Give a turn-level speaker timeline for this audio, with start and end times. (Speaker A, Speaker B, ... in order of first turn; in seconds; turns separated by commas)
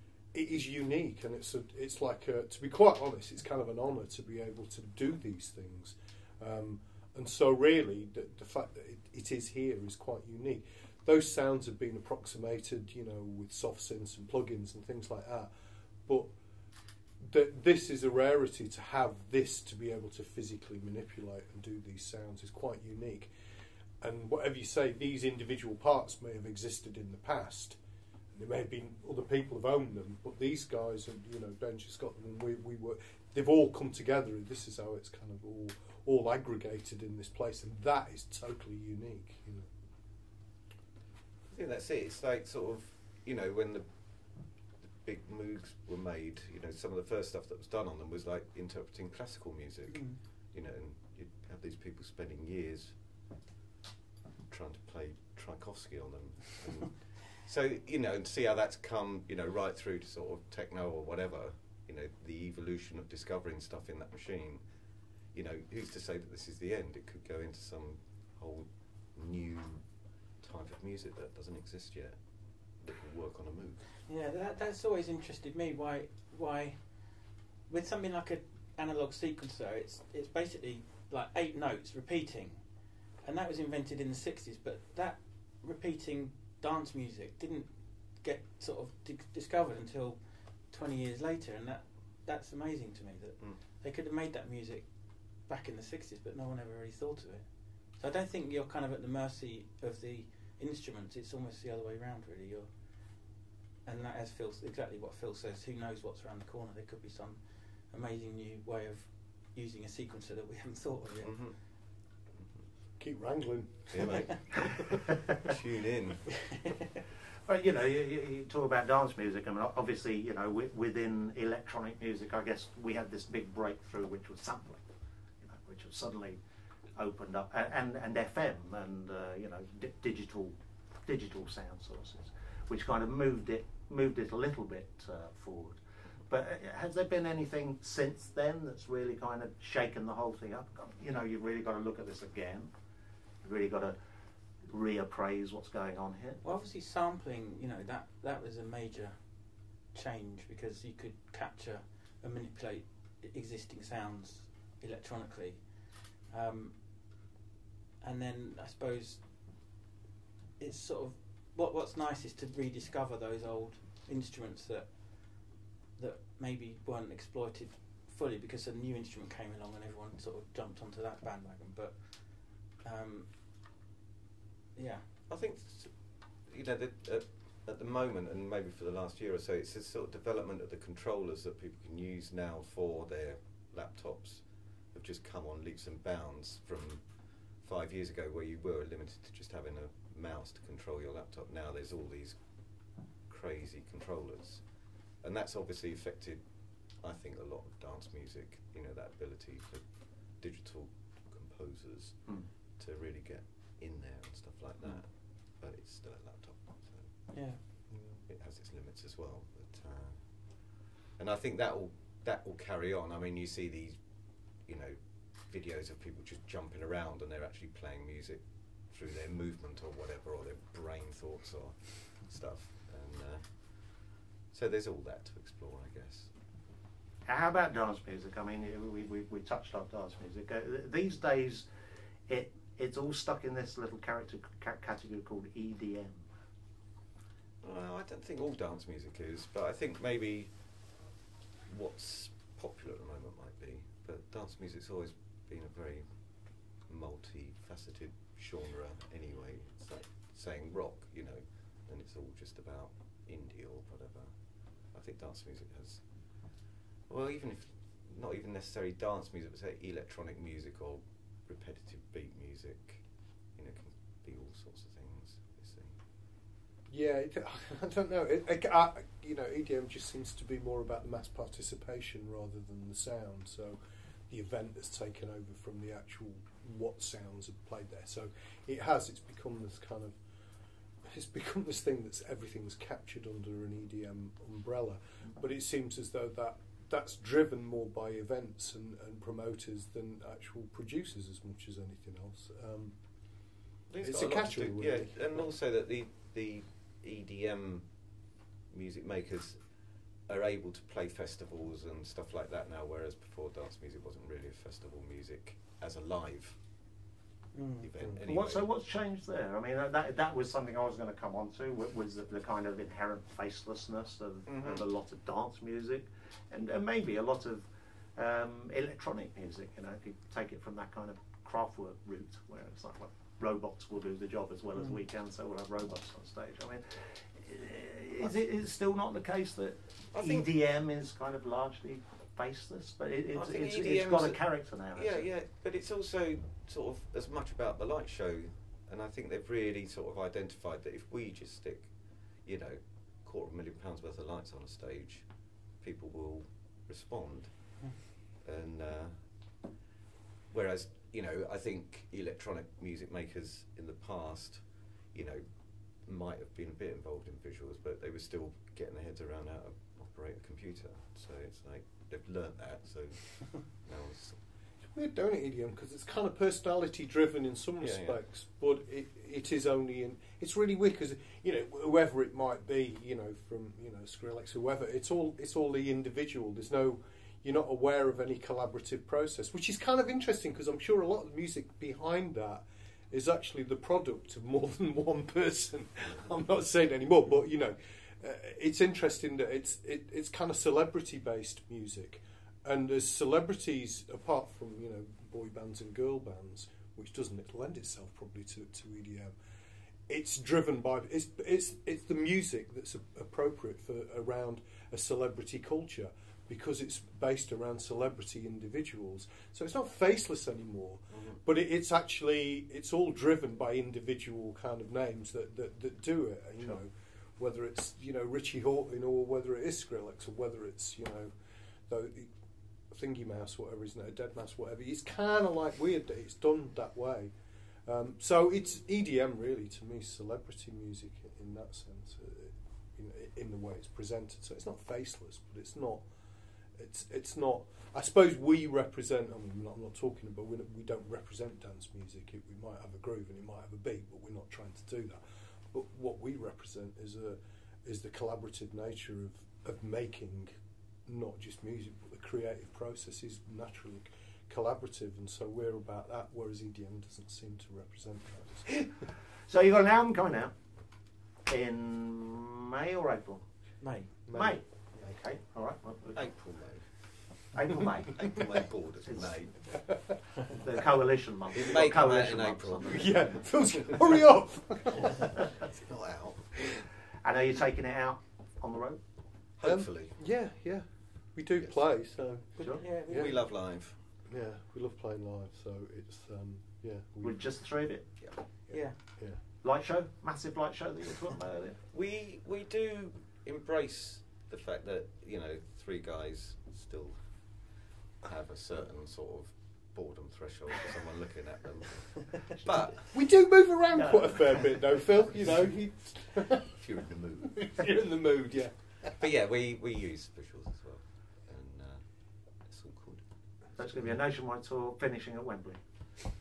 Speaker A: 0.3-15.5, Speaker A: 17.2-23.3, Speaker A: 24.0-27.8, Speaker A: 28.3-39.7, Speaker B: 41.5-53.1, Speaker C: 49.9-50.2, Speaker B: 54.5-73.9, Speaker C: 74.1-103.3, Speaker C: 103.8-111.5, Speaker B: 111.2-111.6, Speaker A: 113.0-115.2, Speaker B: 113.9-116.4, Speaker D: 117.5-124.8, Speaker D: 125.4-126.4, Speaker D: 127.0-142.7, Speaker D: 143.4-144.0, Speaker D: 144.7-146.4, Speaker C: 146.4-156.8, Speaker C: 158.0-159.6, Speaker C: 160.6-173.3, Speaker C: 174.8-175.1, Speaker B: 175.3-226.3, Speaker C: 207.3-207.6, Speaker A: 207.9-208.2, Speaker D: 227.2-231.7, Speaker D: 232.3-236.3, Speaker B: 237.6-241.0, Speaker B: 241.7-266.0, Speaker A: 266.9-273.8, Speaker A: 274.3-280.1, Speaker A: 281.1-295.4, Speaker B: 293.9-306.9, Speaker C: 307.5-307.9, Speaker B: 307.8-308.8, Speaker D: 308.2-335.3, Speaker B: 314.5-314.9, Speaker B: 330.1-330.6, Speaker B: 333.3-349.6, Speaker B: 350.5-364.4, Speaker A: 364.9-399.3, Speaker B: 367.8-368.2, Speaker A: 400.1-421.3, Speaker B: 411.1-411.4, Speaker A: 421.9-422.3, Speaker A: 422.9-427.3, Speaker A: 427.9-436.0, Speaker A: 436.8-445.2, Speaker A: 445.7-450.5, Speaker A: 451.1-458.9, Speaker D: 459.5-460.5, Speaker D: 461.5-463.5, Speaker C: 463.8-464.1, Speaker A: 464.2-464.6, Speaker D: 464.3-466.3, Speaker B: 466.1-470.2, Speaker D: 467.5-469.4, Speaker A: 469.8-470.2, Speaker D: 470.6-473.3, Speaker B: 471.5-474.0, Speaker A: 472.9-475.5, Speaker B: 475.3-476.8, Speaker D: 477.2-479.0, Speaker B: 479.6-480.1, Speaker A: 479.6-487.9, Speaker B: 481.6-482.3, Speaker D: 482.6-482.8, Speaker C: 482.7-483.5, Speaker B: 483.0-484.0, Speaker D: 487.2-488.1, Speaker B: 488.2-488.5, Speaker A: 488.7-489.4, Speaker C: 488.7-489.0, Speaker D: 489.5-491.8, Speaker B: 491.9-503.2, Speaker A: 503.1-506.8, Speaker D: 503.9-505.0, Speaker B: 505.5-505.8, Speaker B: 506.3-508.0, Speaker A: 507.5-509.2, Speaker B: 508.5-514.1, Speaker D: 513.8-515.8